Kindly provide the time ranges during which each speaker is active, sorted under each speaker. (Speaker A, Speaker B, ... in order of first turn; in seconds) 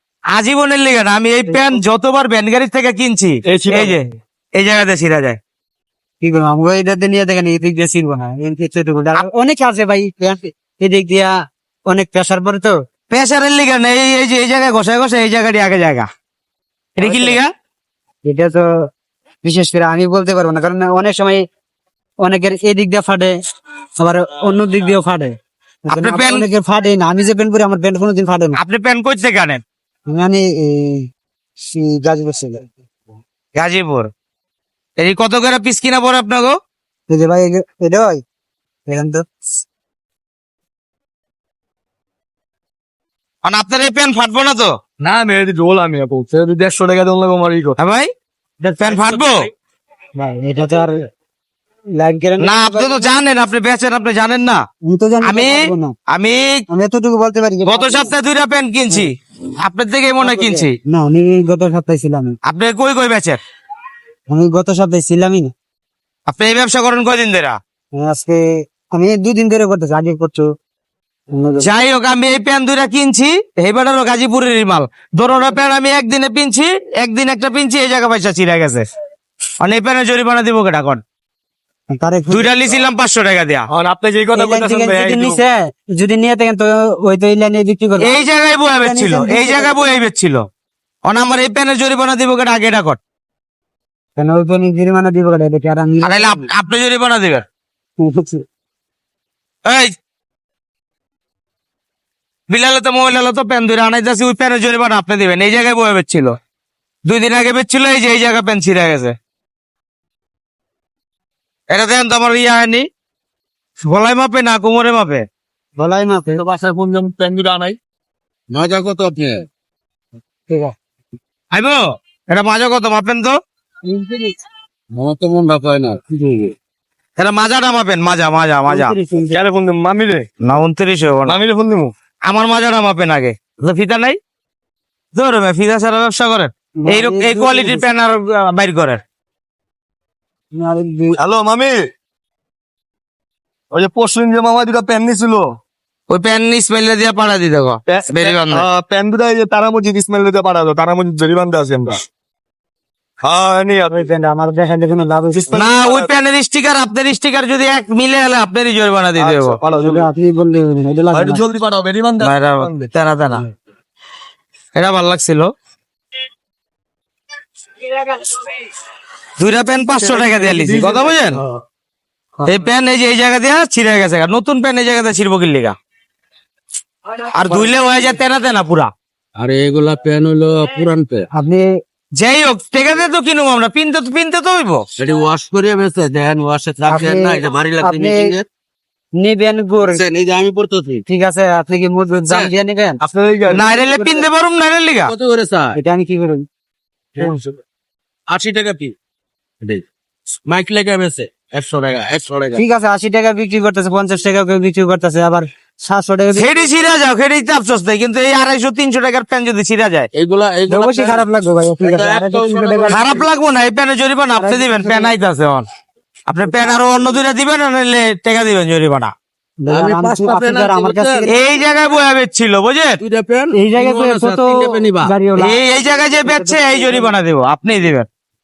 Speaker A: 0.3-5.4, 13.1-16.1, 17.0-17.5, 25.9-26.4, 28.6-29.6, 33.5-34.1, 35.0-36.6, 43.4-44.7, 47.8-48.1, 48.8-49.4, 52.4-54.6, 55.2-56.6, 57.6-59.1, 59.6-60.8, 62.4-63.4, 66.3-67.6, 71.6-78.8, 79.6-81.0, 82.3-83.7, 88.0-90.4, 91.0-93.0, 96.0-97.4, 99.6-99.9, 102.5-106.3, 107.0-109.1, 111.7-112.8, 113.8-115.2, 121.5-123.4, 127.2-128.9, 130.4-131.4, 132.2-134.2, 135.1-139.0, 146.1-148.7, 155.5-159.6, 162.2-163.4, 164.7-165.5, 169.4-171.4, 172.4-175.7, 177.3-178.9, 182.2-184.8, 193.5-195.1, 206.3-210.1, 212.9-215.6, 216.3-219.1, 221.3-223.0, 225.4-228.1
Speaker B: 1.5-1.8, 6.2-11.3, 11.9-12.7, 17.0-17.4, 18.2-18.9, 19.4-21.4, 22.2-23.3, 24.0-28.6, 30.1-31.1, 31.6-32.7, 37.1-38.2, 38.9-39.2, 48.6-49.2, 50.1-51.0, 52.0-53.1, 54.8-55.9, 56.7-58.1, 60.2-62.4, 64.3-65.5, 67.9-70.5, 71.3-71.7, 81.9-82.5, 84.3-88.1, 88.8-89.8, 94.2-96.4, 98.0-98.4, 115.8-116.4, 120.5-120.7, 123.8-124.3, 128.7-129.4, 136.8-137.8, 140.5-141.2, 153.9-155.6, 159.7-161.4, 181.3-181.7, 186.9-188.3, 189.2-190.0, 191.1-193.0, 195.7-196.4, 202.5-206.5, 210.7-213.2, 214.4-215.1, 219.6-221.3, 223.5-225.6, 226.3-227.1
Speaker C: 3.5-4.0, 45.0-47.8, 83.7-85.4, 116.3-117.8, 129.3-130.3, 131.2-131.9, 141.2-141.8, 143.7-145.5, 147.9-152.0, 153.2-154.0, 155.5-156.1, 159.2-160.1, 161.1-162.9, 170.3-171.0, 193.0-193.7, 197.2-197.5
Speaker D: 118.5-119.5, 124.9-126.5, 179.3-181.3, 185.0-188.4, 189.9-191.0, 195.1-195.8, 198.3-198.9, 200.4-202.6, 210.1-211.2, 211.8-213.1, 219.7-221.3, 223.0-225.1